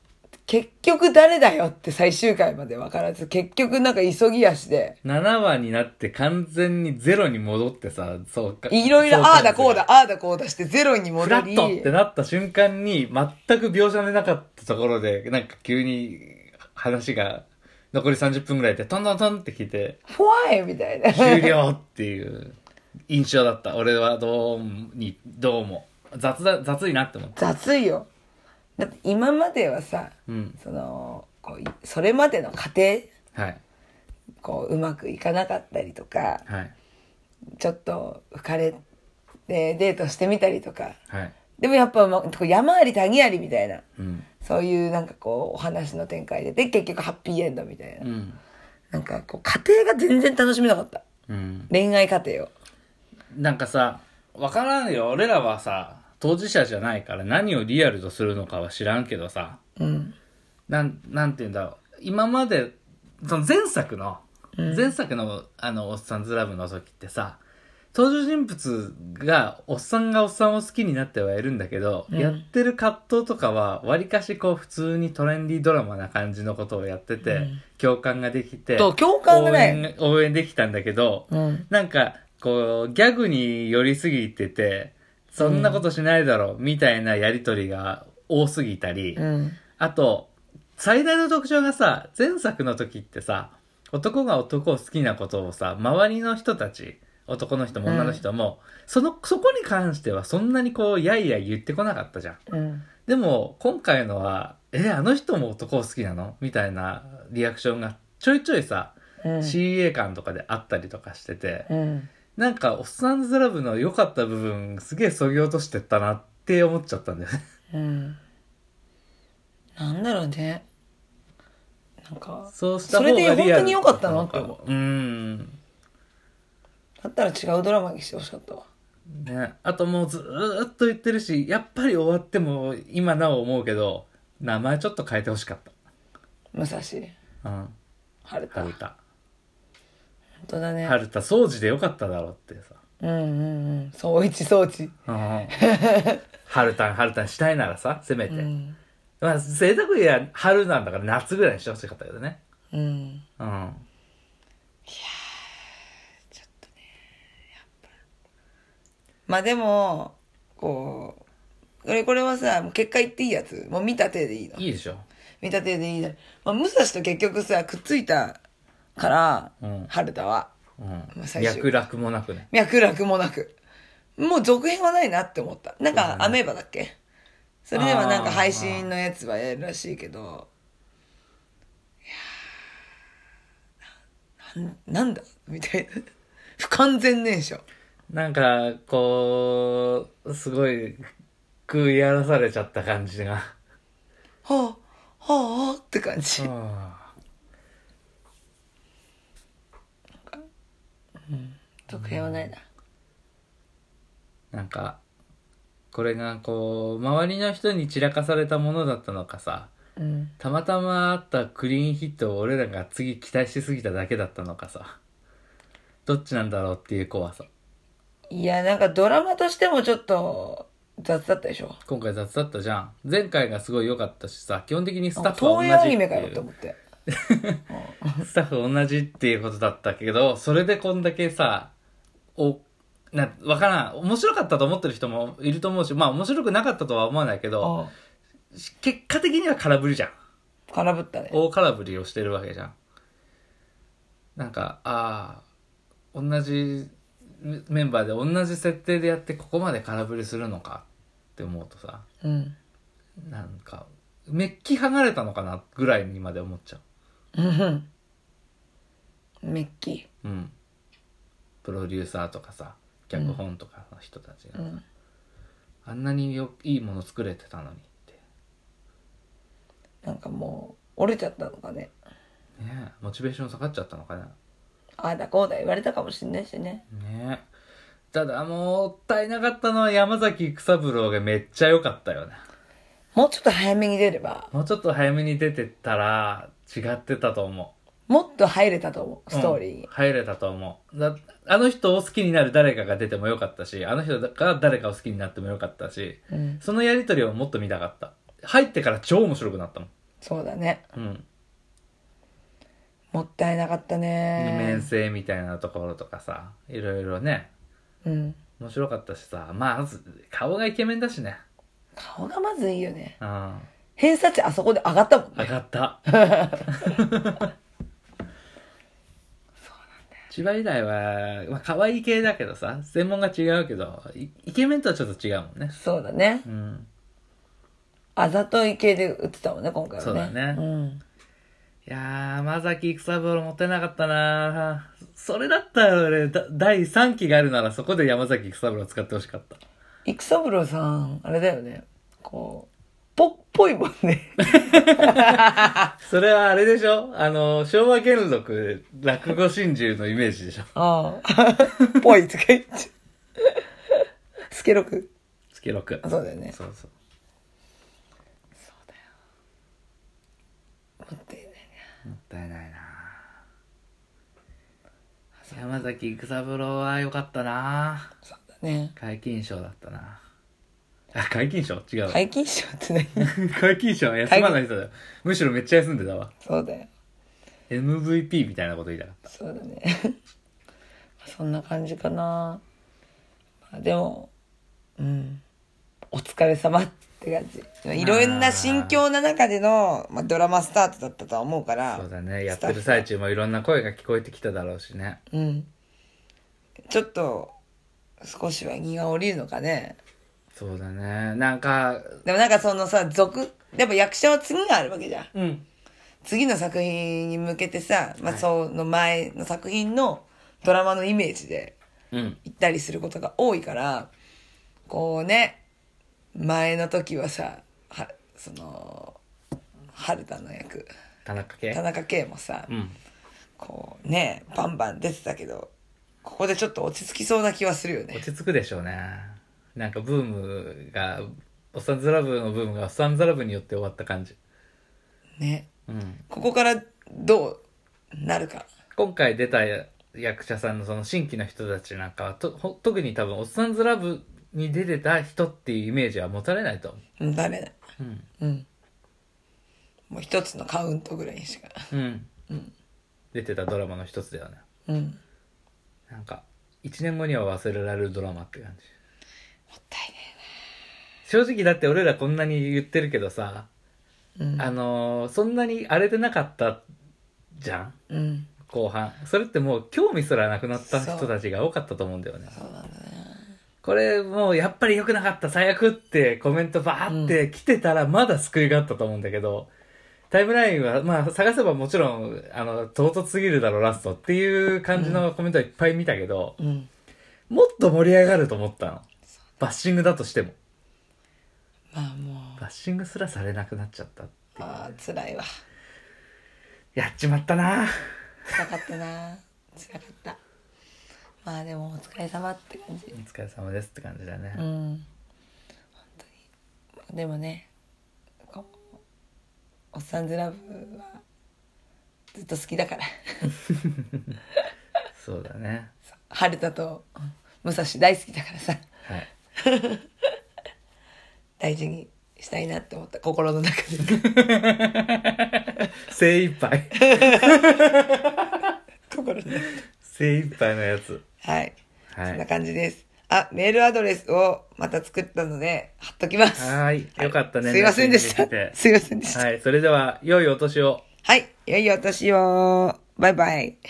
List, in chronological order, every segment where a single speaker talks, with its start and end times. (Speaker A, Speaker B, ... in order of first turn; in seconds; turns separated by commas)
Speaker A: 0.5-5.0, Speaker B: 5.0-9.8, Speaker A: 8.7-11.9, Speaker B: 11.2-20.0, Speaker A: 20.1-21.6, Speaker B: 21.1-22.6, Speaker B: 23.1-27.4, Speaker A: 27.4-28.1, Speaker A: 28.8-33.1, Speaker B: 30.3-30.6, Speaker B: 33.3-33.6, Speaker A: 34.4-36.4, Speaker B: 36.5-36.7, Speaker A: 37.6-38.8, Speaker A: 39.5-41.0, Speaker A: 41.6-43.8, Speaker B: 44.0-44.2, Speaker A: 44.4-48.1, Speaker B: 48.0-48.4, Speaker A: 48.9-51.0, Speaker B: 51.3-51.7, Speaker A: 51.7-52.5, Speaker B: 53.3-59.6, Speaker A: 59.8-60.1, Speaker B: 60.7-67.4, Speaker A: 64.5-64.9, Speaker B: 67.9-89.2, Speaker A: 72.1-72.4, Speaker A: 77.2-77.6, Speaker A: 78.8-79.8, Speaker A: 81.3-81.7, Speaker A: 85.4-85.8, Speaker A: 89.2-89.6, Speaker B: 89.8-102.4, Speaker A: 97.8-98.2, Speaker A: 102.5-102.8, Speaker B: 103.0-111.7, Speaker A: 109.2-109.6, Speaker A: 111.7-112.1, Speaker B: 112.3-117.4, Speaker A: 117.7-118.2, Speaker A: 119.8-120.6, Speaker A: 122.0-124.5, Speaker B: 122.5-125.6, Speaker A: 127.0-128.7, Speaker B: 129.1-135.7, Speaker A: 136.5-137.1, Speaker B: 137.4-137.7, Speaker A: 138.2-138.7, Speaker B: 138.5-139.0, Speaker A: 140.4-141.0, Speaker B: 140.8-142.8, Speaker A: 143.0-144.9, Speaker B: 145.1-145.6, Speaker A: 145.5-146.2, Speaker B: 146.5-148.5, Speaker A: 148.3-148.8, Speaker B: 149.2-152.4, Speaker A: 152.7-153.2, Speaker B: 153.4-153.8, Speaker A: 154.9-155.3, Speaker A: 156.3-156.7, Speaker A: 159.3-161.2, Speaker A: 161.8-164.6, Speaker B: 164.6-165.0, Speaker A: 165.4-168.4, Speaker A: 169.0-170.5, Speaker B: 169.6-169.9, Speaker B: 170.8-172.5, Speaker A: 171.1-171.7, Speaker A: 172.5-173.5, Speaker A: 174.2-176.9, Speaker B: 175.9-176.4, Speaker A: 177.6-180.5, Speaker B: 177.7-178.9, Speaker A: 184.4-186.1, Speaker A: 186.6-187.6, Speaker B: 188.1-191.1, Speaker B: 191.7-193.5, Speaker A: 194.4-196.5, Speaker B: 196.4-197.1, Speaker A: 201.3-202.6, Speaker B: 201.9-202.5, Speaker B: 204.5-205.0, Speaker B: 205.9-209.7, Speaker A: 210.0-210.3, Speaker B: 210.4-214.9, Speaker B: 216.1-217.5, Speaker A: 218.3-221.8, Speaker B: 221.8-226.4, Speaker A: 225.2-226.8, Speaker B: 227.1-227.6, Speaker A: 227.7-228.3, Speaker B: 228.2-231.7, Speaker B: 232.3-237.8, Speaker A: 237.6-237.9, Speaker B: 238.5-240.1, Speaker A: 240.7-241.3, Speaker B: 241.3-242.7, Speaker B: 244.3-245.4, Speaker B: 246.1-252.0, Speaker A: 252.2-252.6, Speaker B: 253.2-256.8, Speaker A: 257.3-257.9, Speaker A: 259.4-260.1, Speaker B: 260.2-260.5, Speaker B: 261.6-264.6, Speaker A: 263.1-263.4, Speaker A: 264.6-264.8, Speaker B: 265.8-268.2, Speaker A: 270.0-271.9, Speaker B: 272.6-274.3, Speaker A: 275.0-276.8, Speaker B: 276.9-277.4, Speaker B: 278.1-282.4, Speaker A: 283.1-284.5, Speaker B: 284.5-287.7, Speaker A: 288.1-289.9, Speaker B: 289.3-299.9, Speaker A: 296.3-296.6, Speaker A: 300.2-300.8, Speaker B: 300.9-301.2, Speaker A: 303.1-304.9, Speaker B: 304.4-307.5, Speaker A: 308.0-308.4, Speaker B: 308.6-311.4, Speaker A: 311.9-313.2, Speaker B: 313.2-313.7, Speaker A: 314.0-315.5, Speaker B: 315.4-316.1, Speaker A: 316.1-316.9, Speaker B: 316.7-317.5, Speaker B: 320.3-325.7, Speaker A: 325.7-326.4, Speaker B: 326.4-326.9, Speaker A: 328.1-331.0, Speaker B: 330.0-330.6, Speaker B: 331.9-339.6, Speaker A: 340.0-345.9, Speaker B: 344.5-350.7, Speaker A: 350.7-352.9, Speaker A: 354.5-355.1, Speaker B: 355.5-356.9, Speaker A: 356.0-356.6, Speaker A: 361.0-361.7, Speaker B: 362.0-363.2, Speaker B: 365.5-368.1, Speaker A: 368.2-368.9, Speaker B: 369.0-370.2, Speaker B: 371.1-372.2, Speaker A: 372.1-373.3, Speaker B: 373.2-376.3, Speaker A: 374.2-374.6, Speaker A: 376.4-376.9, Speaker B: 377.7-379.3, Speaker A: 379.3-379.9, Speaker A: 381.2-382.6, Speaker A: 383.7-384.3, Speaker A: 385.0-385.4, Speaker A: 386.1-393.0, Speaker B: 387.9-389.0, Speaker B: 391.9-395.2, Speaker A: 395.3-395.7, Speaker A: 396.9-397.5, Speaker A: 398.2-400.0, Speaker B: 400.5-402.2, Speaker A: 402.2-405.3, Speaker B: 405.3-405.6, Speaker A: 406.2-411.7, Speaker B: 412.1-412.4, Speaker A: 412.4-414.1, Speaker A: 414.9-415.6, Speaker A: 416.3-419.2, Speaker A: 419.9-420.9, Speaker B: 421.2-421.8, Speaker A: 421.7-422.7, Speaker B: 422.7-423.0, Speaker A: 423.6-425.7, Speaker A: 426.2-428.2, Speaker B: 428.1-434.4, Speaker A: 435.4-435.7, Speaker B: 435.9-436.2, Speaker A: 436.3-437.6, Speaker A: 438.1-438.7, Speaker B: 438.9-447.0, Speaker A: 447.2-447.8, Speaker B: 448.0-448.3, Speaker A: 448.4-448.7, Speaker A: 450.1-451.8, Speaker B: 451.9-452.3, Speaker B: 453.3-454.6, Speaker A: 454.9-455.2, Speaker B: 456.1-458.9, Speaker A: 459.7-460.4, Speaker B: 461.2-463.7, Speaker A: 464.4-464.7, Speaker B: 464.6-466.8, Speaker B: 467.5-467.9, Speaker A: 468.1-468.5, Speaker B: 468.7-472.5, Speaker A: 470.8-471.3, Speaker A: 472.5-473.5, Speaker B: 473.8-479.7, Speaker A: 477.1-477.4, Speaker B: 480.3-486.6, Speaker A: 484.9-485.2, Speaker A: 486.6-486.9, Speaker B: 487.5-489.0, Speaker B: 489.6-490.6, Speaker A: 491.9-492.6, Speaker B: 492.6-494.6, Speaker A: 494.6-495.4, Speaker B: 496.9-497.9, Speaker A: 498.5-500.4, Speaker A: 501.4-503.2, Speaker B: 503.1-504.6, Speaker A: 504.5-505.1, Speaker A: 507.1-507.7, Speaker A: 508.5-508.8, Speaker A: 509.9-511.2, Speaker A: 512.3-513.5, Speaker B: 513.7-514.3, Speaker B: 515.1-515.9, Speaker A: 516.3-517.1, Speaker A: 517.6-518.8, Speaker A: 519.6-520.0, Speaker A: 521.6-524.2, Speaker B: 524.1-528.7, Speaker A: 527.0-527.8, Speaker A: 529.1-529.8, Speaker B: 529.6-531.2, Speaker A: 531.4-531.8, Speaker B: 532.1-532.4, Speaker A: 532.3-539.4, Speaker B: 536.6-538.8, Speaker B: 539.3-541.0, Speaker A: 541.2-543.8